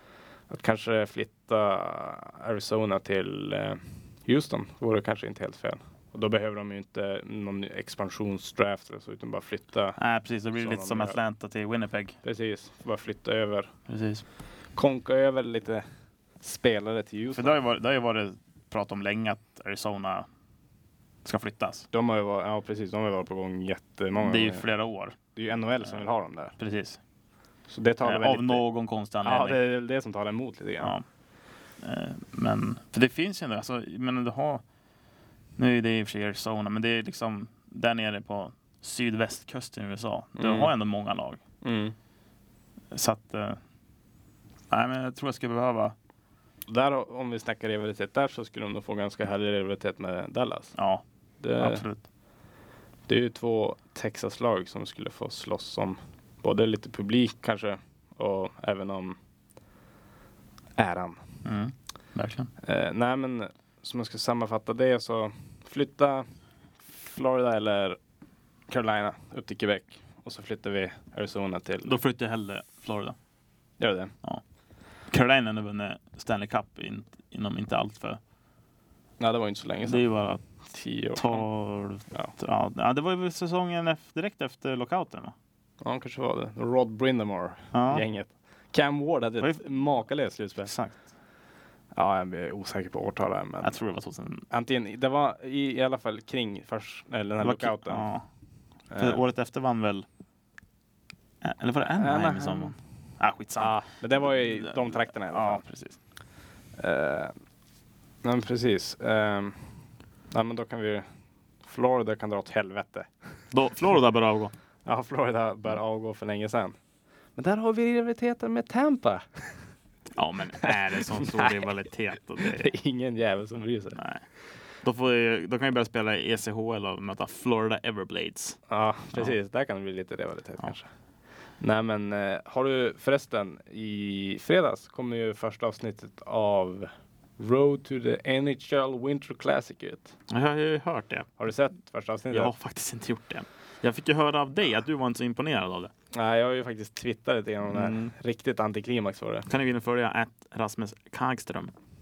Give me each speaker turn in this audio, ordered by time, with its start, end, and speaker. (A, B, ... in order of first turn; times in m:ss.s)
0:00.5-0:10.0 A
0:10.0-0:12.2 B
0:10.5-0:11.2 A
0:12.2-0:13.7 A
0:13.9-0:14.2 B
0:14.8-0:15.8 A
0:16.4-0:17.5 A
0:17.3-0:20.3 B
0:21.2-0:21.8 B
0:21.9-0:24.6 A
0:24.2-0:25.2 B
0:25.3-0:26.5 A
0:26.6-0:27.0 B
0:27.7-0:28.6 A
0:28.0-0:29.6 B
0:29.2-0:30.9 A
0:31.8-0:34.6 B
0:35.6-0:41.4 B
0:40.4-0:40.7 A
0:41.6-0:41.9 A
0:42.9-0:43.6 B
0:44.7-0:45.9 B
0:46.7-0:50.7 A
0:50.8-0:51.0 B
0:51.4-0:51.8 A
0:51.6-0:52.0 B
0:53.1-0:59.2 A
1:00.8-1:01.2 A
1:01.4-1:02.5 B
1:02.6-1:06.2 A
1:06.8-1:08.0 A
1:08.7-1:11.9 A
1:11.8-1:13.2 B
1:13.8-1:14.1 A
1:15.1-1:18.2 B
1:19.2-1:20.0 A
1:19.8-1:20.4 B
1:20.6-1:21.4 A
1:21.2-1:25.3 B
1:25.8-1:30.7 A
1:27.7-1:28.0 B
1:29.4-1:29.7 B
1:30.6-1:31.0 B
1:31.9-1:33.8 A
1:33.6-1:34.4 B
1:34.5-1:38.1 A
1:37.4-1:38.2 B
1:38.9-1:39.2 A
1:39.0-1:40.0 B
1:41.4-1:46.0 B
1:42.0-1:42.8 A
1:43.6-1:45.6 A
1:46.8-1:47.3 A
1:48.2-1:49.6 A
1:50.3-1:51.0 A
1:51.6-1:53.1 A
1:53.5-1:54.5 B
1:54.8-1:56.8 A
1:57.4-1:59.6 A
2:00.1-2:02.7 B
2:00.6-2:01.6 A
2:02.4-2:04.0 A
2:04.0-2:04.2 B
2:04.8-2:08.6 B
2:08.7-2:10.9 A
2:11.6-2:20.2 A
2:20.3-2:21.3 B
2:21.4-2:22.5 A
2:22.3-2:25.9 B
2:26.1-2:29.5 A
2:27.7-2:28.1 B
2:29.5-2:31.7 B